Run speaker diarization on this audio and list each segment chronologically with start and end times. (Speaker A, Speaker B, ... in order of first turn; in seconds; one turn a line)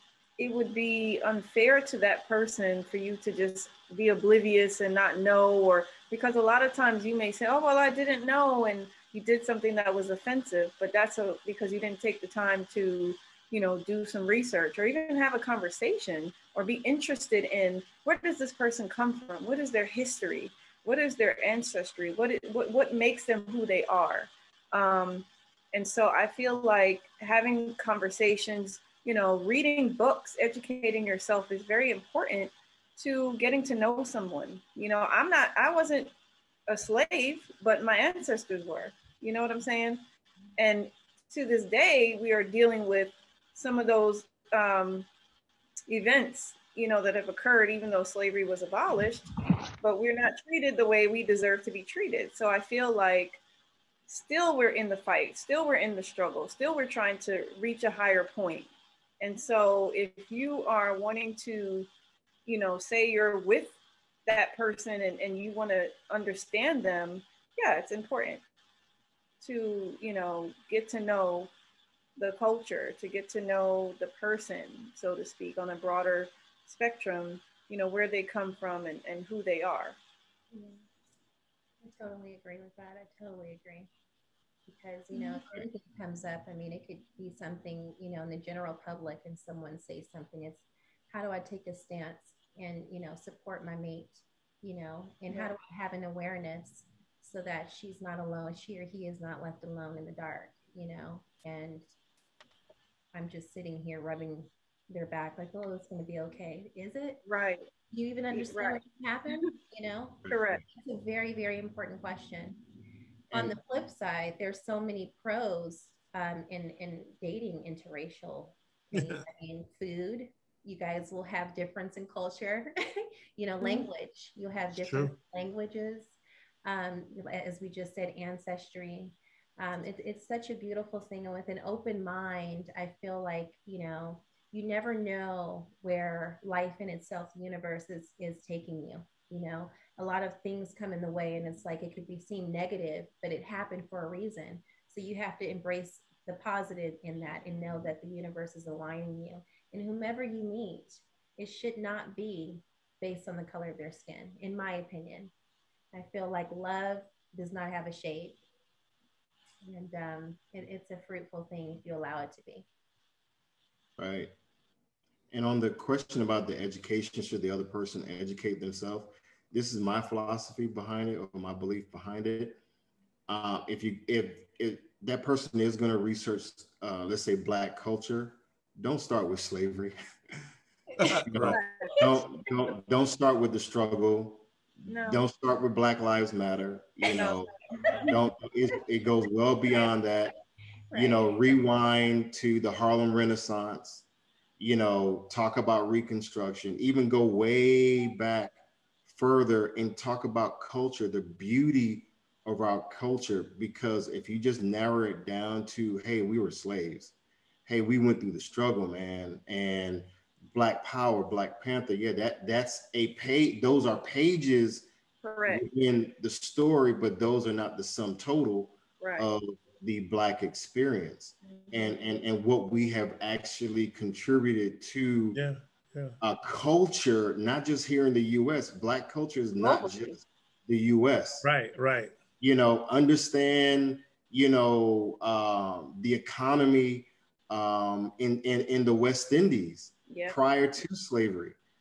Speaker A: 0.4-36.1
Speaker A: 36.7-40.0
Speaker A: 40.6-45.1
Speaker A: 45.9-53.4
Speaker A: 54.1-61.9
Speaker A: 62.5-63.7
Speaker A: 64.2-68.4
Speaker A: 69.4-71.5
Speaker A: 72.2-80.0
Speaker B: 80.5-80.8
Speaker B: 81.8-83.9
Speaker B: 84.7-101.8
Speaker A: 85.1-85.4
Speaker A: 95.3-95.5
Speaker B: 103.1-107.2
Speaker A: 107.2-107.7
Speaker B: 107.9-112.6
Speaker A: 108.3-109.5
Speaker A: 110.3-110.6
Speaker B: 113.3-155.3
Speaker A: 123.6-123.9
Speaker C: 124.7-125.1
Speaker B: 155.9-158.4
Speaker B: 159.6-162.7
Speaker D: 164.0-164.3
Speaker D: 165.3-172.6
Speaker D: 173.3-179.9
Speaker C: 181.0-181.6
Speaker D: 181.2-184.4
Speaker A: 181.5-182.0
Speaker A: 184.8-185.2
Speaker D: 185.0-187.5
Speaker A: 187.1-188.2
Speaker D: 188.0-190.3
Speaker B: 190.9-191.6
Speaker D: 190.9-194.0
Speaker D: 194.6-198.5
Speaker D: 199.1-207.1
Speaker D: 207.7-214.9
Speaker A: 215.2-215.6
Speaker D: 215.5-225.4
Speaker A: 219.0-219.3
Speaker A: 221.4-222.2
Speaker C: 225.3-226.2
Speaker D: 226.2-231.5
Speaker A: 229.6-230.2
Speaker C: 231.4-232.1
Speaker D: 232.4-241.6
Speaker A: 240.1-240.4